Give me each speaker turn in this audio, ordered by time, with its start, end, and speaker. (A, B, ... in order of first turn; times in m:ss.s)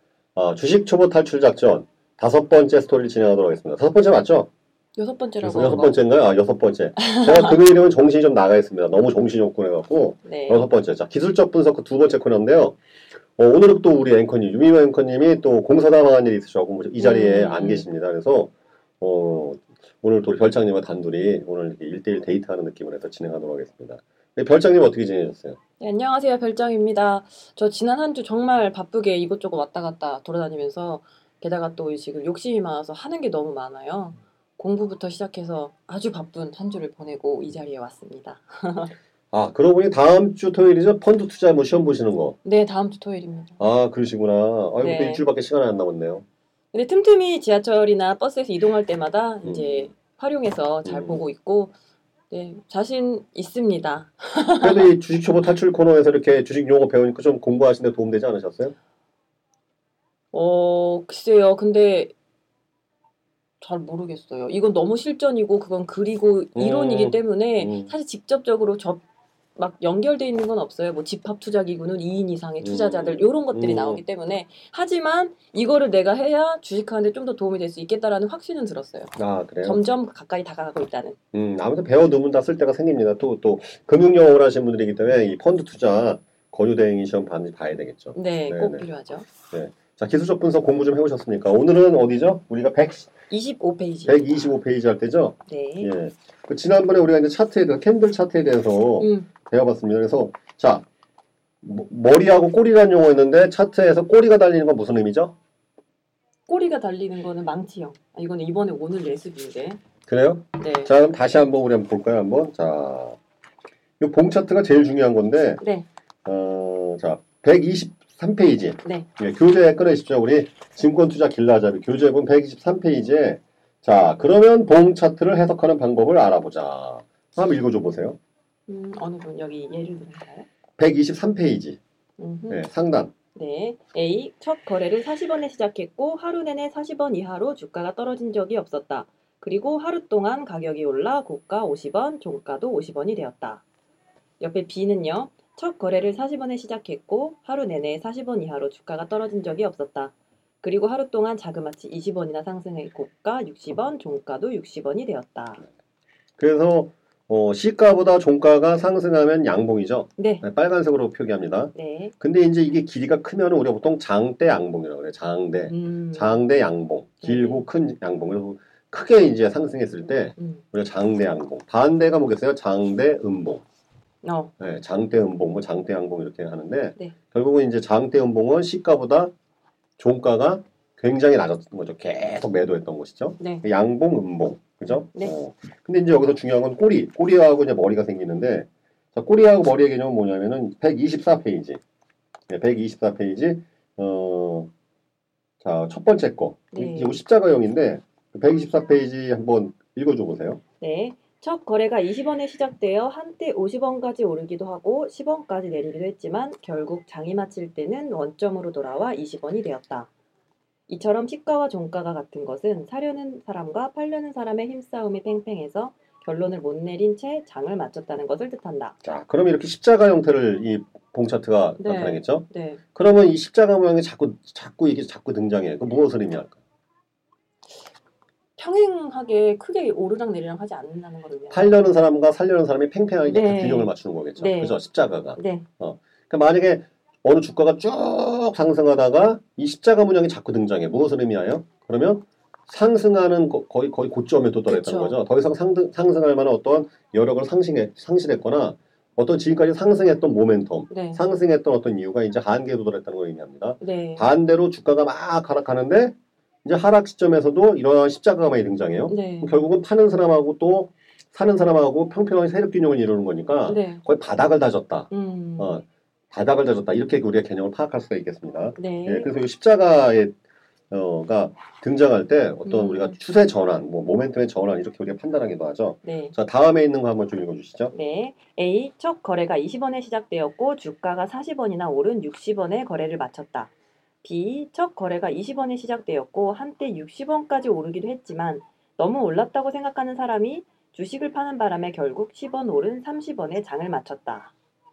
0:00.3-0:04.5 A
0:05.0-0:06.0 B
0:05.4-0:12.8 A
0:07.0-0:07.6 B
0:10.2-0:10.6 B
0:13.4-0:25.6 A
0:17.0-0:17.8 B
0:25.8-0:38.9 B
0:39.3-0:42.4 A
0:42.4-0:43.6 B
0:43.6-0:46.2 A
0:44.8-0:45.2 B
0:46.7-0:51.7 B
0:49.4-0:49.9 A
0:50.8-0:51.2 A
0:52.3-0:54.9 B
0:54.6-0:58.7 A
1:00.3-1:02.1 B
1:03.6-1:09.0 B
1:06.5-1:07.9 A
1:09.6-1:21.2 B
1:12.6-1:14.0 A
1:19.2-1:19.8 A
1:21.3-1:28.9 A
1:28.1-1:29.3 B
1:29.5-1:33.1 A
1:33.3-1:34.6 B
1:34.0-1:40.8 A
1:35.4-1:35.9 B
1:39.0-1:39.3 B
1:41.6-1:45.3 A
1:46.5-1:49.8 B
1:50.1-1:53.2 A
1:50.6-1:50.9 B
1:54.0-1:55.6 A
1:55.6-1:55.8 B
1:56.2-2:08.2 A
2:08.7-2:10.5 B
2:10.8-2:11.8 A
2:12.2-2:12.6 B
2:12.5-2:13.1 A
2:13.3-2:23.6 B
2:24.4-2:35.6 B
2:36.4-2:53.6 A
2:40.2-2:40.4 B
2:41.7-2:42.1 B
2:45.7-2:46.4 B
2:47.2-2:47.6 B
2:54.2-2:54.5 B
2:54.6-2:59.3 A
3:00.0-3:11.8 A
3:03.4-3:03.6 B
3:12.5-3:14.7 A
3:15.6-3:20.6 A
3:16.7-3:17.2 B
3:20.8-3:30.1 B
3:30.9-3:39.0 B
3:39.0-3:46.6 A
3:41.8-3:42.8 B
3:48.6-3:51.8 B
3:51.5-4:30.3 A
3:53.2-3:54.8 B
3:55.4-3:55.6 B
4:04.7-4:05.2 B
4:10.9-4:11.2 B
4:13.8-4:14.2 B
4:19.1-4:19.5 B
4:23.6-4:24.0 B
4:25.1-4:25.8 B
4:28.8-4:29.3 B
4:30.9-4:37.9 A
4:32.6-4:33.2 B
4:36.0-4:36.3 B
4:37.9-4:43.7 B
4:44.2-4:54.5 B